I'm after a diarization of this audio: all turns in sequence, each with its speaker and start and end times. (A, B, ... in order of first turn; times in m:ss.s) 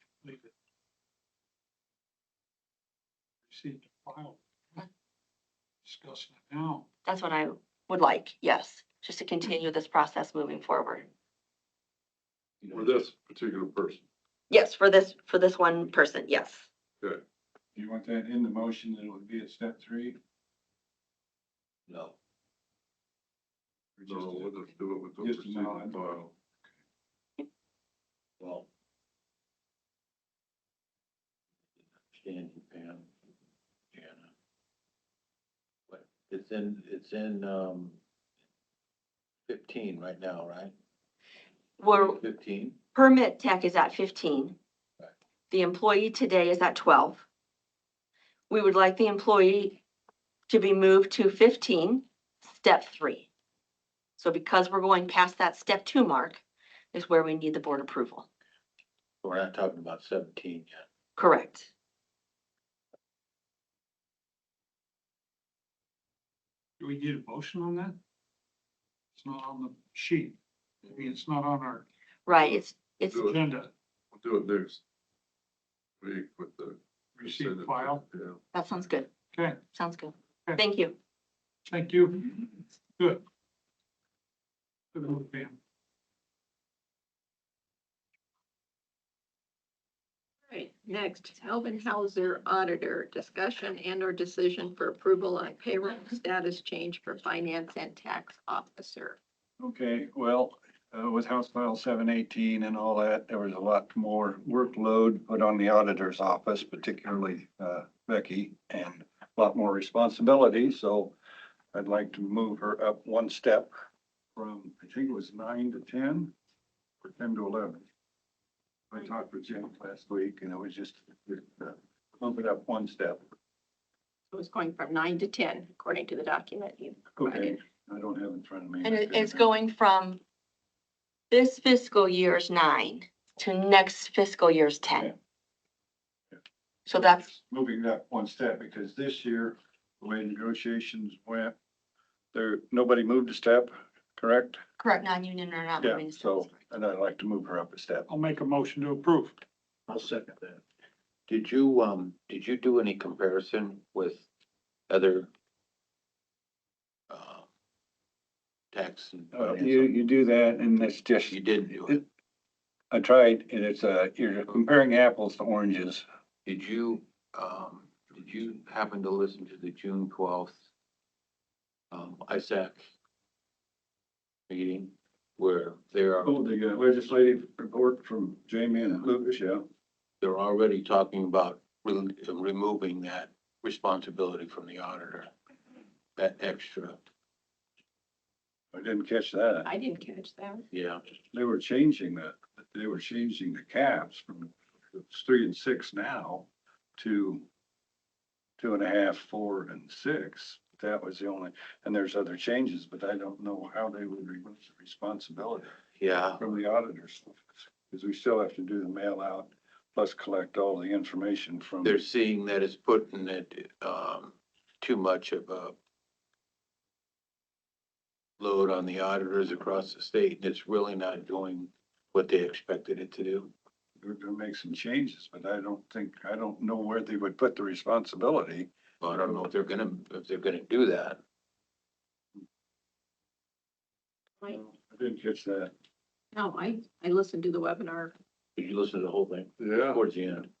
0:00.2-0:00.5 A
0:03.5-0:04.9 A
0:05.8-0:06.8 A
0:07.0-0:11.1 B
0:12.6-0:13.0 C
0:12.7-0:14.0 D
0:14.5-0:16.7 B
0:17.7-0:20.2 E
0:21.9-0:22.2 C
0:24.0-0:24.5 E
0:24.0-0:26.3 D
0:25.2-0:26.0 E
0:28.4-0:28.7 E
0:32.1-0:33.1 C
0:33.9-0:34.3 C
0:35.9-0:38.0 C
0:39.5-0:40.7 C
0:41.8-0:42.2 B
0:41.9-0:42.8 C
0:42.9-0:44.6 B
0:45.5-0:47.2 B
0:48.5-0:49.8 B
0:50.5-0:53.3 B
0:54.2-0:58.3 B
0:59.2-1:00.8 C
1:01.2-1:01.7 B
1:06.8-1:08.0 A
1:09.2-1:11.8 A
1:12.2-1:13.3 B
1:13.1-1:13.4 D
1:13.2-1:13.7 A
1:14.1-1:14.8 D
1:16.0-1:18.4 D
1:17.2-1:18.0 A
1:18.5-1:19.1 B
1:19.3-1:19.6 A
1:19.6-1:21.0 B
1:21.6-1:23.2 A
1:24.9-1:25.6 A
1:30.5-1:39.1 F
1:32.3-1:39.1 A
1:39.6-1:51.1 E
1:51.7-1:53.7 E
1:54.4-1:56.3 E
1:57.0-1:57.8 E
1:58.9-2:03.2 E
2:04.3-2:07.6 F
2:07.2-2:09.5 E
2:08.8-2:10.2 B
2:11.3-2:15.1 B
2:16.9-2:17.2 B
2:16.9-2:21.5 E
2:22.3-2:24.6 E
2:24.8-2:26.6 B
2:25.8-2:28.1 E
2:28.1-2:29.4 A
2:29.9-2:30.6 C
2:31.3-2:34.2 C
2:34.9-2:35.3 C
2:37.1-2:37.5 C
2:38.7-2:40.0 C
2:39.3-2:42.0 E
2:41.3-2:42.0 C
2:42.9-2:46.0 E
2:46.4-2:50.6 C
2:51.9-2:52.9 C
2:54.5-2:56.3 C
2:56.2-2:59.6 E
3:00.2-3:05.3 C
3:06.2-3:07.0 C
3:08.7-3:09.7 E
3:09.7-3:10.6 F
3:10.7-3:11.0 C
3:11.3-3:17.5 E
3:18.6-3:25.8 E
3:26.0-3:26.4 C
3:26.4-3:32.0 E
3:31.8-3:35.8 C
3:38.4-3:43.5 C
3:44.0-3:48.7 E
3:49.0-3:51.2 C
3:54.5-3:55.7 E
3:56.3-3:58.1 F
3:58.6-4:00.5 C
3:59.6-4:00.0 D